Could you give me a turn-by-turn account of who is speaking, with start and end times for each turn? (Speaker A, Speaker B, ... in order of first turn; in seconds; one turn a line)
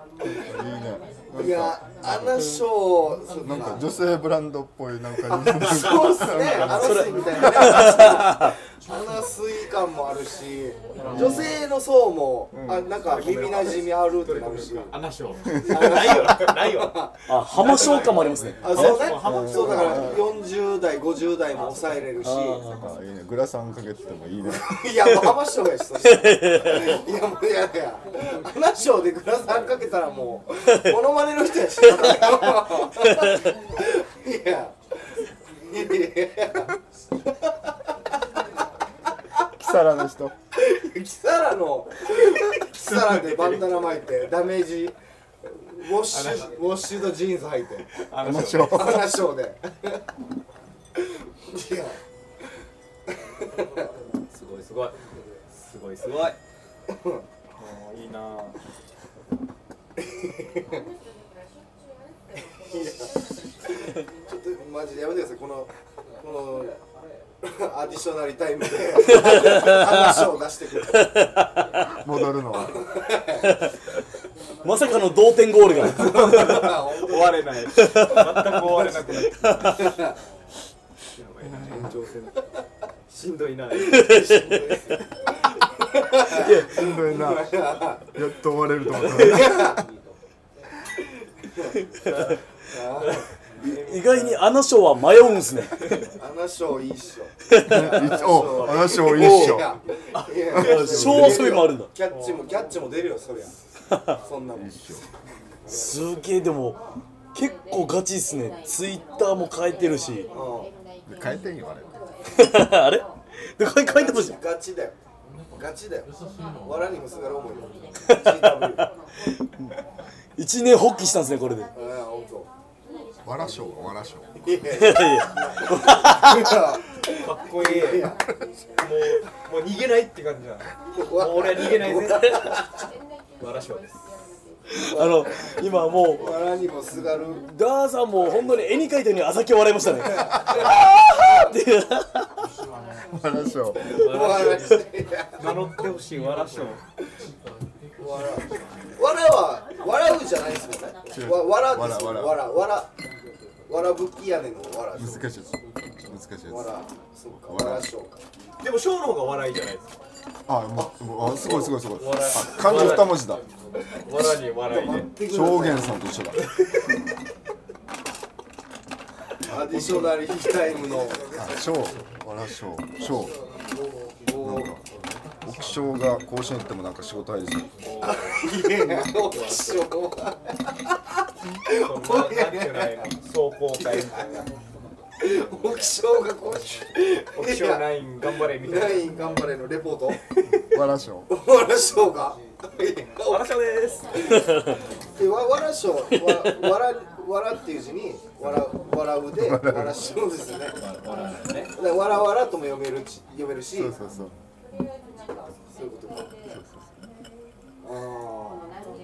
Speaker A: 0.3-2.5
Speaker B: 1.3-3.8
Speaker A: 3.4-7.1
Speaker B: 5.2-15.0
Speaker C: 6.4-7.8
Speaker D: 6.8-8.5
Speaker C: 11.0-11.6
Speaker C: 12.5-20.3
Speaker B: 15.5-17.2
Speaker D: 17.3-19.0
Speaker B: 18.6-22.6
Speaker A: 19.2-20.1
Speaker C: 21.5-22.0
Speaker D: 22.2-22.9
Speaker A: 22.8-25.0
Speaker B: 24.4-34.8
Speaker D: 26.2-26.8
Speaker B: 35.6-37.7
Speaker A: 39.6-40.3
Speaker B: 40.5-47.9
Speaker C: 42.9-44.0
Speaker C: 46.1-46.6
Speaker C: 48.0-49.0
Speaker A: 48.1-49.0
Speaker B: 48.7-50.0
Speaker B: 51.0-52.0
Speaker B: 53.4-53.9
Speaker C: 54.3-55.0
Speaker C: 55.5-56.4
Speaker B: 56.9-57.2
Speaker C: 57.6-58.6
Speaker B: 60.0-60.8
Speaker B: 62.6-66.8
Speaker B: 67.4-71.3
Speaker D: 69.2-70.2
Speaker A: 72.0-72.8
Speaker B: 72.5-73.5
Speaker D: 73.4-73.7
Speaker D: 74.6-76.7
Speaker B: 75.7-77.7
Speaker C: 75.8-79.9
Speaker D: 77.8-79.9
Speaker B: 79.6-80.2
Speaker C: 81.1-82.5
Speaker C: 83.1-84.3
Speaker D: 83.9-84.6
Speaker B: 83.9-85.1
Speaker B: 85.8-88.1
Speaker D: 86.3-86.8
Speaker A: 86.7-87.5
Speaker A: 88.1-89.7
Speaker B: 89.0-89.9
Speaker B: 91.4-92.1
Speaker B: 92.6-93.2
Speaker C: 93.6-94.4
Speaker D: 93.6-96.0
Speaker C: 95.8-96.1
Speaker B: 96.1-103.5
Speaker D: 97.5-99.6
Speaker A: 97.6-99.8
Speaker C: 100.1-100.9
Speaker D: 100.5-101.9
Speaker A: 100.5-101.6
Speaker C: 102.1-102.5
Speaker B: 104.2-104.8
Speaker A: 104.5-105.0
Speaker B: 105.7-106.0
Speaker D: 105.7-106.8
Speaker D: 107.3-110.2
Speaker B: 110.3-110.7
Speaker A: 111.0-111.9
Speaker D: 112.3-113.0
Speaker D: 113.6-114.4
Speaker B: 113.8-115.0
Speaker B: 115.5-116.1
Speaker B: 116.6-118.8
Speaker D: 118.1-119.7
Speaker D: 120.4-121.7
Speaker B: 121.7-122.5
Speaker A: 123.2-124.7
Speaker B: 124.4-128.2
Speaker D: 124.7-126.6
Speaker C: 127.1-128.1
Speaker C: 128.8-132.5
Speaker B: 130.9-132.7
Speaker C: 133.4-134.0
Speaker D: 134.7-136.4
Speaker B: 134.8-135.4
Speaker B: 136.2-137.4
Speaker D: 137.4-142.3
Speaker B: 140.2-140.8
Speaker A: 143.1-143.8
Speaker B: 143.8-145.6
Speaker C: 143.9-144.7
Speaker D: 144.2-144.7
Speaker C: 145.4-146.8
Speaker B: 148.0-152.9
Speaker A: 151.1-152.5
Speaker B: 153.7-155.2
Speaker A: 154.9-156.7
Speaker B: 156.5-158.2
Speaker A: 157.3-157.9
Speaker C: 158.6-159.9
Speaker A: 160.5-163.4
Speaker B: 160.8-161.7
Speaker C: 161.3-163.2
Speaker C: 164.1-165.1
Speaker B: 164.6-166.2
Speaker A: 165.1-166.4
Speaker C: 166.3-166.8
Speaker B: 169.4-171.5
Speaker A: 169.7-170.1
Speaker C: 169.8-170.2
Speaker A: 171.3-173.3
Speaker B: 174.2-174.7
Speaker A: 174.4-174.8
Speaker A: 175.4-177.7
Speaker C: 177.8-179.8
Speaker B: 178.0-180.6
Speaker C: 181.7-184.4
Speaker B: 181.7-183.1
Speaker B: 183.7-184.4
Speaker B: 185.2-187.9
Speaker C: 185.3-185.9
Speaker C: 187.3-189.1
Speaker B: 188.5-190.6
Speaker A: 190.7-191.3
Speaker B: 191.3-193.5
Speaker C: 193.2-194.4
Speaker B: 194.1-194.4
Speaker D: 194.3-194.6
Speaker B: 195.2-200.8
Speaker D: 196.1-196.6
Speaker A: 199.3-200.0
Speaker C: 200.8-201.7
Speaker B: 201.7-203.9
Speaker A: 203.7-204.3
Speaker B: 205.7-206.3
Speaker A: 206.5-206.9
Speaker B: 207.8-208.7